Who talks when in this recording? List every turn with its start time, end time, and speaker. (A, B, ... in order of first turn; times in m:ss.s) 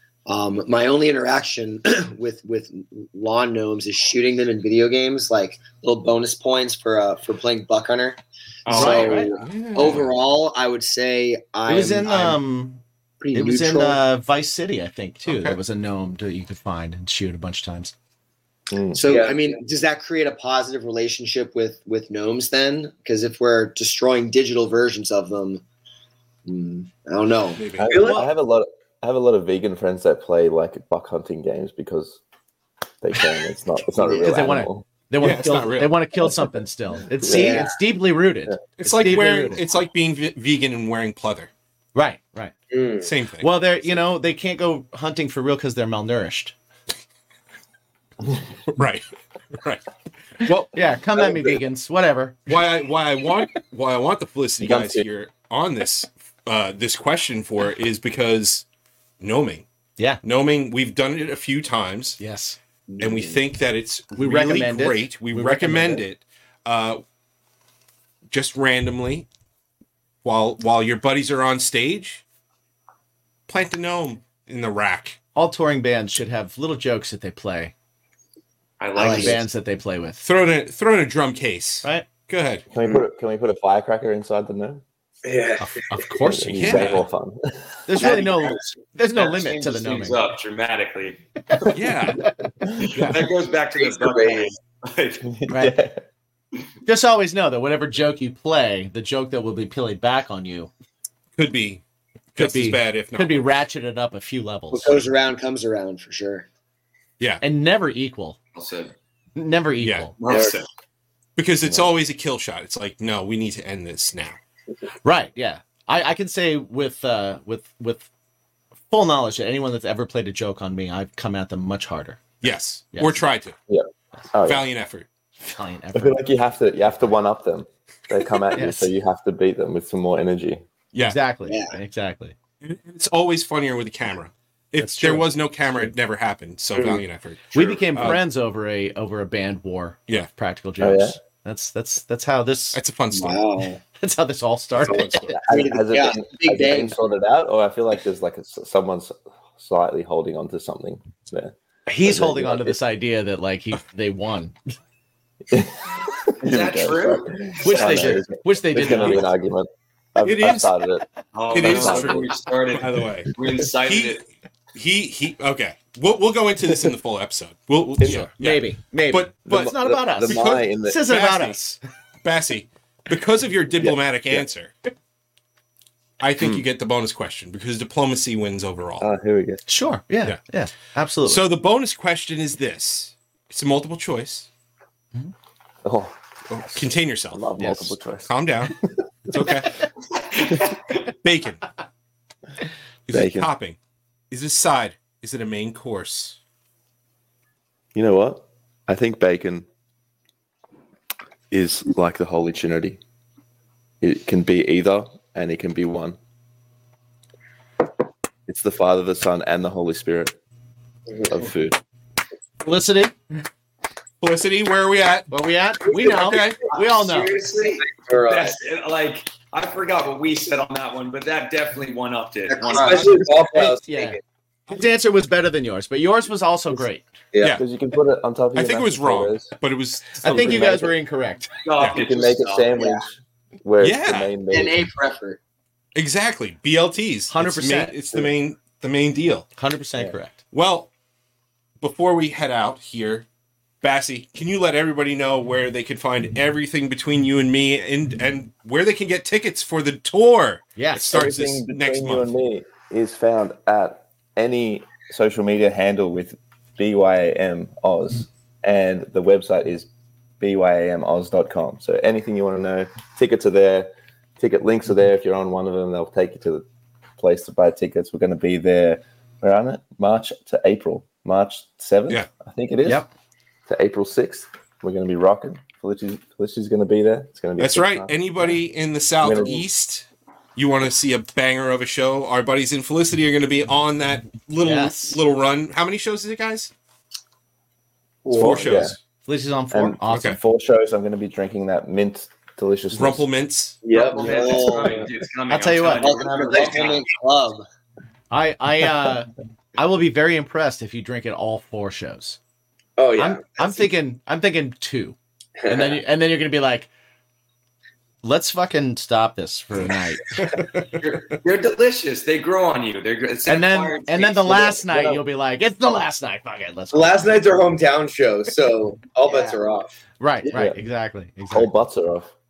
0:00.2-0:12.4 A
0:08.6-0:09.2 B
0:08.7-0:10.1 C
0:08.7-0:09.3 D
0:11.7-0:17.9 D
0:13.2-0:14.0 A
0:15.2-0:15.6 C
0:18.7-0:19.0 E
0:18.9-0:25.6 A
0:19.0-0:19.4 F
0:26.4-0:27.6 A
0:27.6-0:28.0 C
0:27.8-0:32.2 E
0:27.8-0:28.2 F
0:27.9-0:28.2 D
0:33.0-0:34.8 E
0:34.0-0:34.3 A
0:34.2-0:39.6 D
0:35.2-0:36.0 C
0:37.2-0:37.7 A
0:37.3-0:37.5 E
0:38.8-0:41.5 C
0:41.9-0:42.5 D
0:42.7-0:43.1 F
0:43.0-0:43.5 C
0:43.4-0:46.5 D
0:48.7-0:49.8 C
0:50.4-0:52.5 D
0:52.5-0:58.6 C
0:54.6-0:55.0 E
0:59.2-0:59.6 C
1:00.2-1:02.2 C
1:02.2-1:02.6 D
1:03.0-1:07.0 C
1:04.1-1:06.0 D
1:08.3-1:09.2 C
1:10.2-1:12.2 C
1:13.5-1:15.2 C
1:15.3-1:17.7 D
1:18.8-1:19.4 B
1:19.0-1:20.2 D
1:19.0-1:19.3 A
1:20.2-1:22.6 C
1:22.7-1:24.8 E
1:25.2-1:25.6 F
1:25.6-1:27.0 D
1:26.2-1:28.4 E
1:26.6-1:27.0 C
1:27.9-1:30.2 D
1:28.0-1:28.6 B
1:29.1-1:31.2 B
1:31.7-1:32.2 C
1:32.8-1:35.2 B
1:32.9-1:33.2 C
1:34.1-1:34.5 A
1:35.2-1:36.0 E
1:35.5-1:35.8 D
1:36.8-1:40.7 D
1:41.4-1:41.8 C
1:42.3-1:43.5 C
1:42.4-1:45.1 D
1:44.7-1:46.4 A
1:47.4-1:48.4 D
1:48.5-1:48.9 B
1:49.4-1:50.1 D
1:49.8-1:50.5 C
1:50.2-1:50.7 B
1:51.4-1:54.4 C
1:51.6-1:51.9 E
1:55.0-1:58.1 D
1:58.9-2:02.2 D
2:02.4-2:03.5 C
2:02.9-2:03.2 D
2:03.7-2:04.6 E
2:04.4-2:05.1 C
2:05.4-2:06.2 D
2:05.9-2:10.6 E
2:08.5-2:08.9 D
2:10.9-2:11.2 C
2:11.0-2:12.3 D
2:11.5-2:11.7 A
2:12.6-2:18.2 C
2:14.8-2:15.3 D
2:17.5-2:22.8 D
2:17.6-2:18.2 E
2:20.8-2:21.2 E
2:22.7-2:23.5 C
2:23.1-2:23.8 A
2:24.0-2:25.4 D
2:24.8-2:25.3 C
2:25.4-2:32.8 E
2:25.5-2:26.9 A
2:31.9-2:34.5 D
2:35.5-2:42.2 E
2:36.4-2:38.1 B
2:37.6-2:39.3 D
2:38.8-2:39.2 C
2:40.2-2:40.7 C
2:41.3-2:44.2 B
2:41.5-2:43.3 C
2:43.8-2:44.2 C
2:44.7-2:54.7 C
2:48.0-2:48.3 E
2:48.0-2:51.8 D
2:49.5-2:51.1 E
2:53.8-2:54.4 E
2:56.2-2:59.0 C
2:56.4-2:56.6 E
2:59.0-2:59.6 E
2:59.7-3:01.4 D
3:01.2-3:04.5 C
3:05.8-3:06.2 E
3:06.5-3:07.6 C
3:06.8-3:09.0 E
3:07.6-3:07.9 D
3:08.3-3:08.7 C
3:09.3-3:09.8 C
3:11.0-3:11.6 C
3:13.1-3:13.8 C
3:13.1-3:13.5 E
3:14.3-3:16.4 C
3:17.9-3:19.6 E
3:21.5-3:23.0 E
3:24.0-3:26.2 E
3:28.5-3:30.3 E
3:31.3-3:31.8 E
3:32.6-3:33.1 D
3:34.2-3:35.3 C
3:35.3-3:37.3 D
3:35.9-3:36.7 C
3:36.7-3:43.5 B
3:37.8-3:38.6 F
3:42.5-3:43.1 A
3:42.8-3:43.2 C
3:42.8-3:43.9 F
3:43.5-3:47.1 D
3:47.5-3:49.5 E
3:48.5-3:50.6 C
3:50.2-3:51.5 D
3:50.2-3:51.0 E
3:51.6-3:52.7 B
3:51.8-3:54.8 E
3:52.7-3:53.0 A
3:53.8-3:54.4 C
3:54.5-3:55.4 A
3:55.9-3:59.5 C
3:57.3-3:58.0 D
3:59.6-4:00.4 D
4:00.5-4:00.9 C
4:01.8-4:03.2 C
4:03.8-4:12.3 C
4:10.8-4:11.1 D
4:11.1-4:19.9 E
4:20.4-4:26.6 E
4:27.2-4:33.0 E
4:32.8-4:33.1 D
4:33.7-4:38.6 E
4:37.6-4:46.7 C
4:39.2-4:39.6 E
4:44.6-4:45.2 D
4:48.2-4:48.7 A
4:48.3-4:49.0 C
4:48.4-4:49.0 E
4:49.2-4:50.4 D
4:49.7-4:53.2 E
4:50.1-4:50.4 C
4:52.9-4:53.8 C
4:53.8-4:55.0 F
4:53.9-4:57.1 B
4:54.0-4:55.1 A
4:55.5-4:56.1 D
4:55.9-4:57.6 A
4:58.3-5:02.4 D
5:03.0-5:03.8 F
5:03.2-5:05.2 D
5:05.7-5:06.9 D
5:08.2-5:10.4 D
5:10.4-5:10.8 C
5:11.0-5:14.6 B
5:13.4-5:17.4 D
5:14.4-5:15.2 E
5:16.9-5:19.9 F
5:19.2-5:19.6 A
5:20.2-5:21.7 D
5:20.4-5:20.8 E
5:21.5-5:22.3 E